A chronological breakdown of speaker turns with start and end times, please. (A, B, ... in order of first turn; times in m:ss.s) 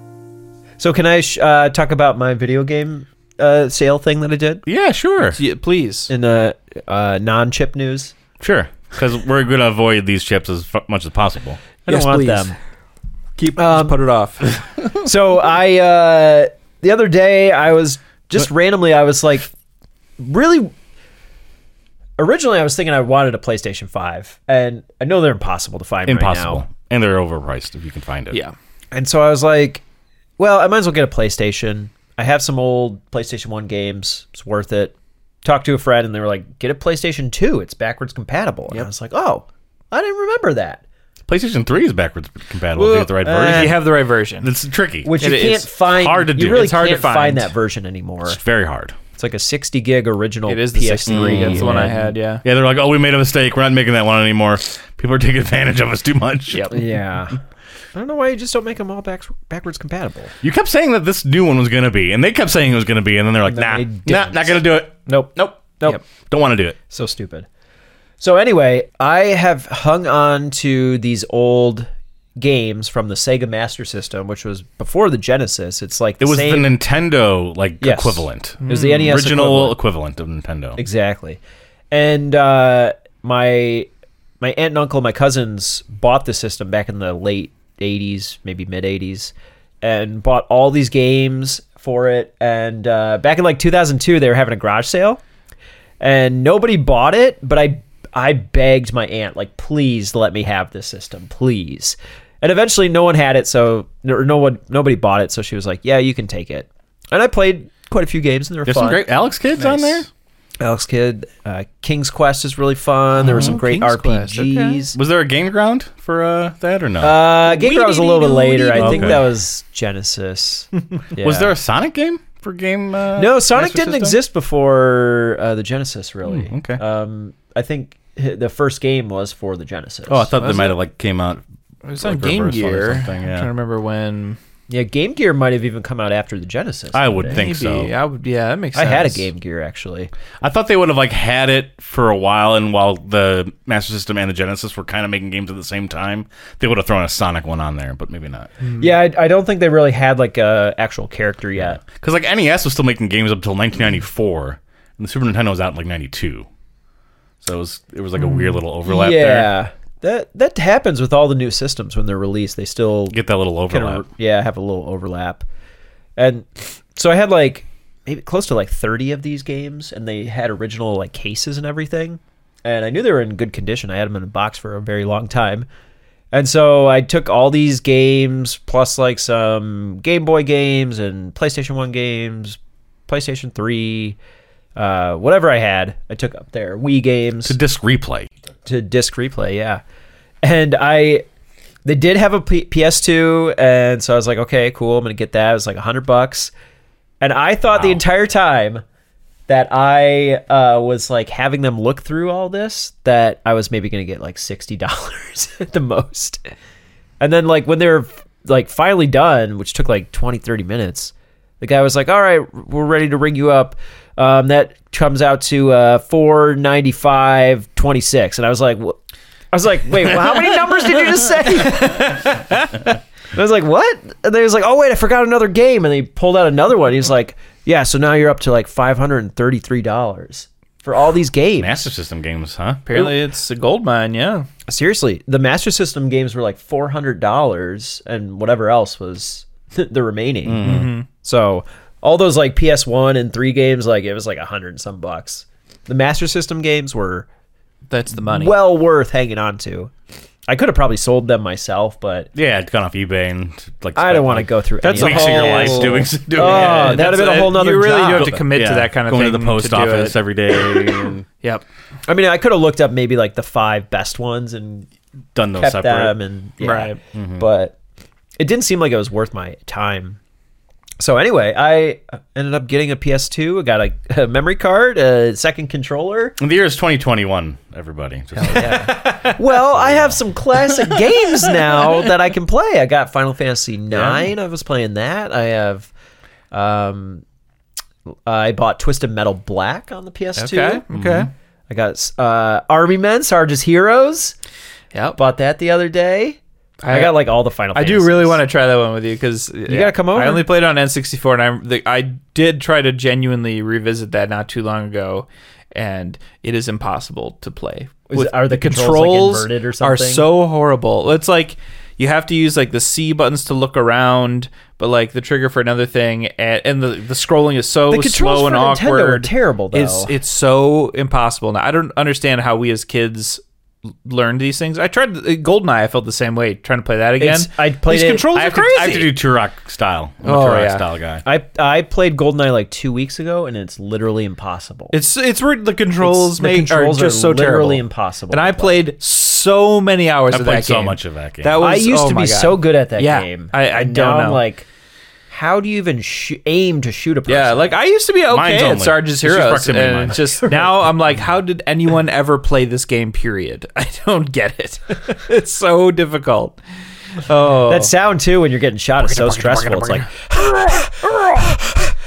0:00.8-0:04.6 A
0:04.6-0:05.4 B
0:05.3-0:06.1 C
0:06.1-0:08.1 A
0:08.4-0:11.6 B
0:11.8-0:12.5 A
0:11.9-0:12.5 C
0:13.4-0:14.5 C
0:13.6-0:13.9 A
0:14.9-0:19.5 A
0:20.2-0:20.7 A
0:22.2-0:26.6 A
0:26.0-0:28.4 B
0:28.9-0:29.8 A
0:30.4-0:40.8 A
0:41.3-0:43.9 B
0:42.8-0:44.5 C
0:43.2-0:43.9 A
0:44.4-0:45.1 B
0:45.0-0:48.4 A
0:45.2-0:45.7 C
0:45.8-0:46.8 B
0:46.4-0:47.5 C
0:48.2-0:49.0 B
0:49.2-0:52.0 A
0:50.5-0:52.4 C
0:51.1-0:56.7 B
0:56.5-0:56.8 C
0:56.7-0:57.4 A
0:57.9-1:00.3 A
1:00.4-1:06.8 B
1:03.4-1:06.0 A
1:06.9-1:07.5 A
1:08.2-1:16.7 A
1:16.2-1:20.8 B
1:17.8-1:19.8 A
1:18.6-1:19.0 C
1:20.8-1:21.4 A
1:21.9-1:23.9 A
1:24.4-1:35.2 A
1:36.0-1:49.0 A
1:48.6-1:50.1 B
1:49.6-1:50.0 C
1:50.6-1:55.0 A
1:53.2-1:54.8 C
1:53.2-1:53.6 B
1:54.9-1:57.2 B
1:57.0-2:01.5 A
1:57.5-1:59.2 C
1:58.7-1:59.2 B
2:01.2-2:04.2 B
2:03.2-2:10.4 A
2:06.2-2:06.8 B
2:10.1-2:11.4 B
2:10.4-2:10.7 C
2:11.8-2:14.4 C
2:12.0-2:13.5 B
2:14.7-2:17.4 A
2:16.9-2:17.9 B
2:17.3-2:19.3 C
2:18.7-2:20.1 A
2:20.4-2:28.5 B
2:28.8-2:31.8 A
2:31.8-2:36.5 B
2:37.4-2:39.5 B
2:38.8-2:43.2 A
2:43.1-2:44.0 B
2:43.7-2:45.4 A
2:46.2-2:55.6 A
2:56.3-3:04.2 A
3:04.8-3:07.6 A
3:07.4-3:08.3 B
3:08.6-3:09.8 A
3:10.4-3:11.2 A
3:11.8-3:16.5 A
3:17.2-3:18.8 A
3:17.7-3:18.0 B
3:19.5-3:26.4 A
3:27.2-3:39.0 A
3:39.5-3:51.8 A
3:51.6-3:52.8 B
3:52.8-3:54.5 C
3:54.7-4:07.2 A
4:00.4-4:00.9 B
4:00.6-4:01.0 C
4:07.9-4:08.5 C
4:08.2-4:09.9 A
4:10.5-4:12.3 A
4:12.3-4:17.0 B
4:14.0-4:18.4 A
4:14.8-4:21.6 C
4:18.1-4:21.2 B
4:22.1-4:24.9 A
4:25.3-4:26.2 B
4:25.6-4:27.7 A
4:26.6-4:27.0 C
4:27.1-4:27.4 B
4:28.4-4:30.2 A
4:31.0-4:36.4 A
4:36.4-4:38.9 B
4:38.4-4:39.4 C
4:38.4-4:45.9 A
4:39.7-4:42.1 B
4:43.9-4:44.3 B
4:46.5-4:47.2 A
4:48.2-4:50.8 A
4:50.4-4:51.3 C
4:50.9-4:51.3 B
4:51.7-4:54.3 A
4:54.9-4:55.2 C
4:55.2-4:56.4 A
4:56.8-4:57.2 C
4:56.9-4:58.4 A
4:57.7-5:23.4 C
4:59.7-5:00.5 A
5:08.1-5:10.2 A
5:17.9-5:20.1 A
5:24.0-5:29.1 C
5:27.2-5:28.4 A
5:28.3-5:31.2 B
5:30.2-5:30.8 C
5:31.2-5:34.9 A
5:34.9-5:44.4 C
5:36.0-5:38.9 A
5:40.3-5:41.6 B
5:41.6-5:44.6 A
5:45.3-5:47.7 A
5:47.3-5:56.6 C
5:48.3-5:50.2 B
5:50.5-5:50.8 A
5:57.2-5:57.9 C
5:57.6-6:01.7 A
5:59.0-6:01.7 C